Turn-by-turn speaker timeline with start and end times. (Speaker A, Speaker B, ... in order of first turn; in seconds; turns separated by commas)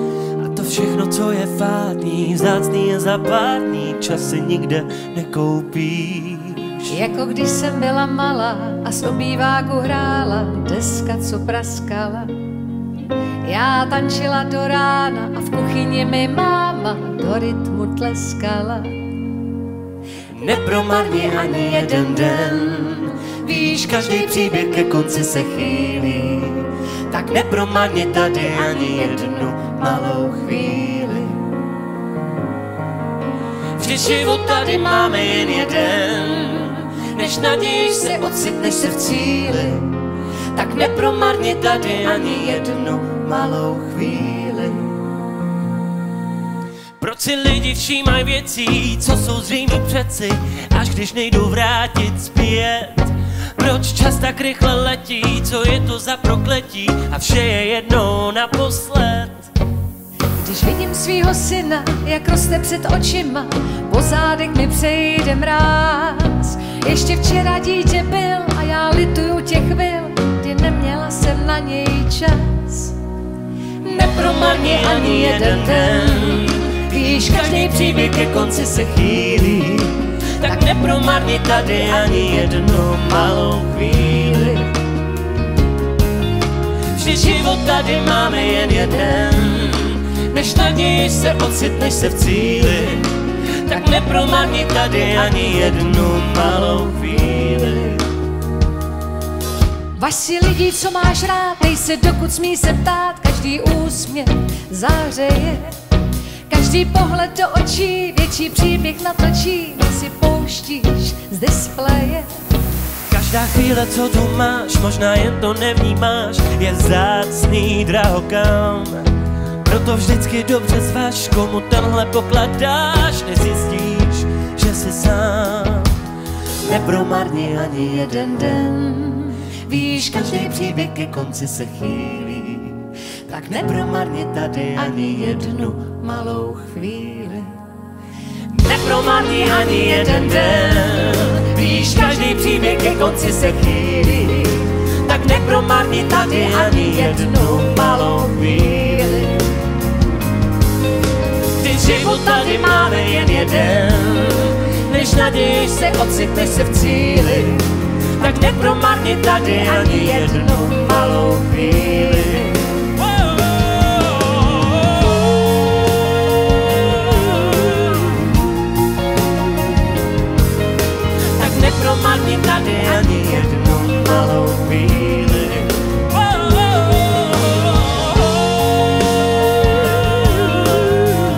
Speaker A: 0.4-7.0, Speaker B: 6.9-12.4, Speaker B: 13.4-19.1, Speaker A: 20.3-31.5, Speaker A: 33.8-40.0, Speaker A: 40.5-45.0, Speaker A: 47.0-59.5, Speaker B: 60.4-73.0, Speaker A: 73.8-84.7, Speaker B: 74.2-76.4, Speaker A: 86.9-98.0, Speaker B: 99.9-105.7, Speaker B: 106.5-112.3, Speaker A: 113.1-119.1, Speaker A: 119.6-126.0, Speaker A: 126.6-137.6, Speaker A: 138.5-149.4, Speaker B: 146.9-147.2, Speaker A: 151.6-162.7, Speaker B: 159.8-160.7, Speaker A: 171.3-177.7